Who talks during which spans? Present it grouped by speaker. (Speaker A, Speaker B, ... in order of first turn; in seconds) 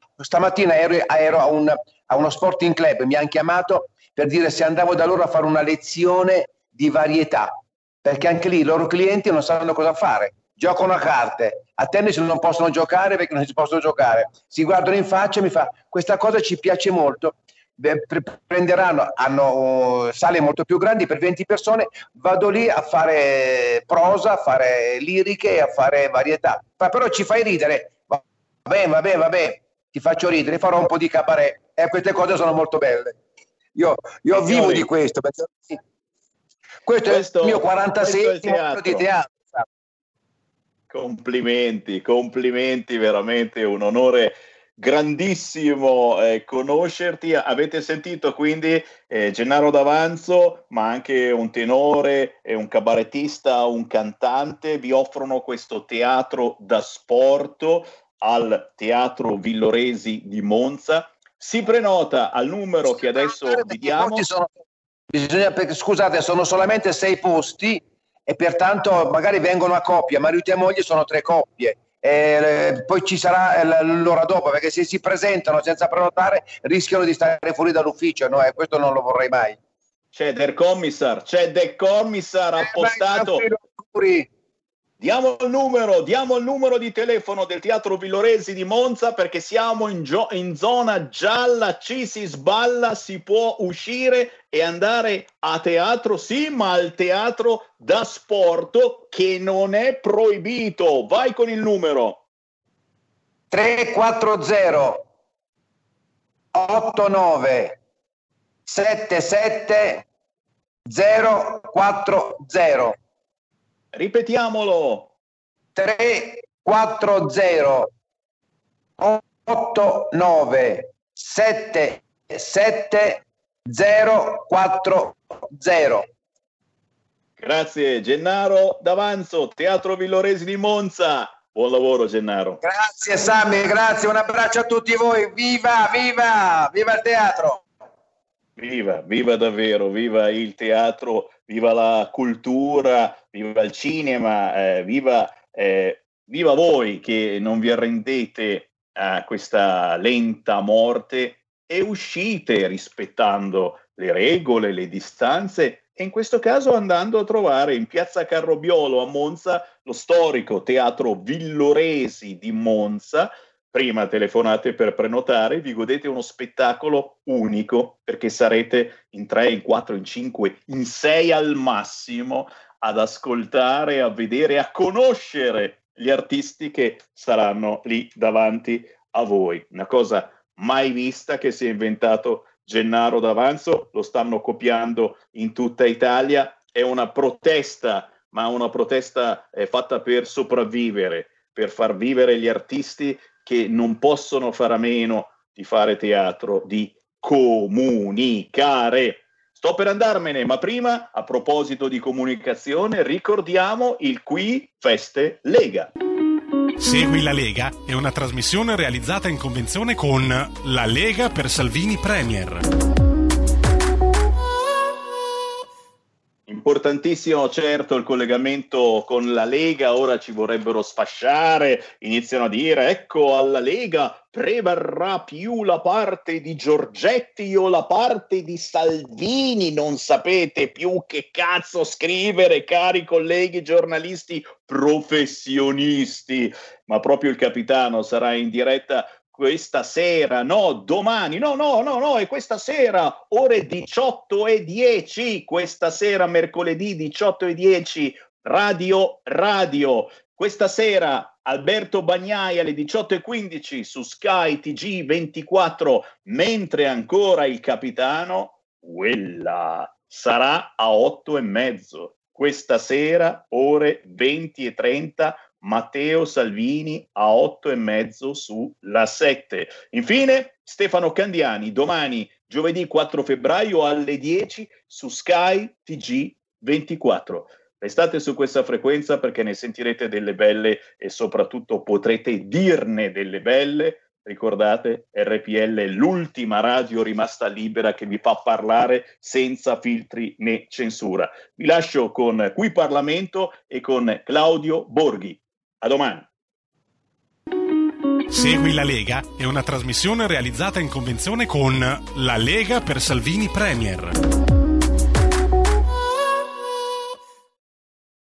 Speaker A: 0.2-33.2, 33.8-35.8, 36.9-39.6, 63.0-64.5, 65.1-79.6, 82.6-84.3, 103.5-105.0, 106.5-107.8, 108.7-110.0, 110.9-113.0, 115.8-117.9, 119.0-126.1, 132.6-137.6
Speaker B: 34.4-34.9, 37.1-39.0, 40.9-64.2, 80.1-83.4, 85.0-102.2, 113.9-115.1, 127.4-132.6, 138.6-205.9, 216.5-296.3
Speaker C: 206.8-212.7, 298.3-304.2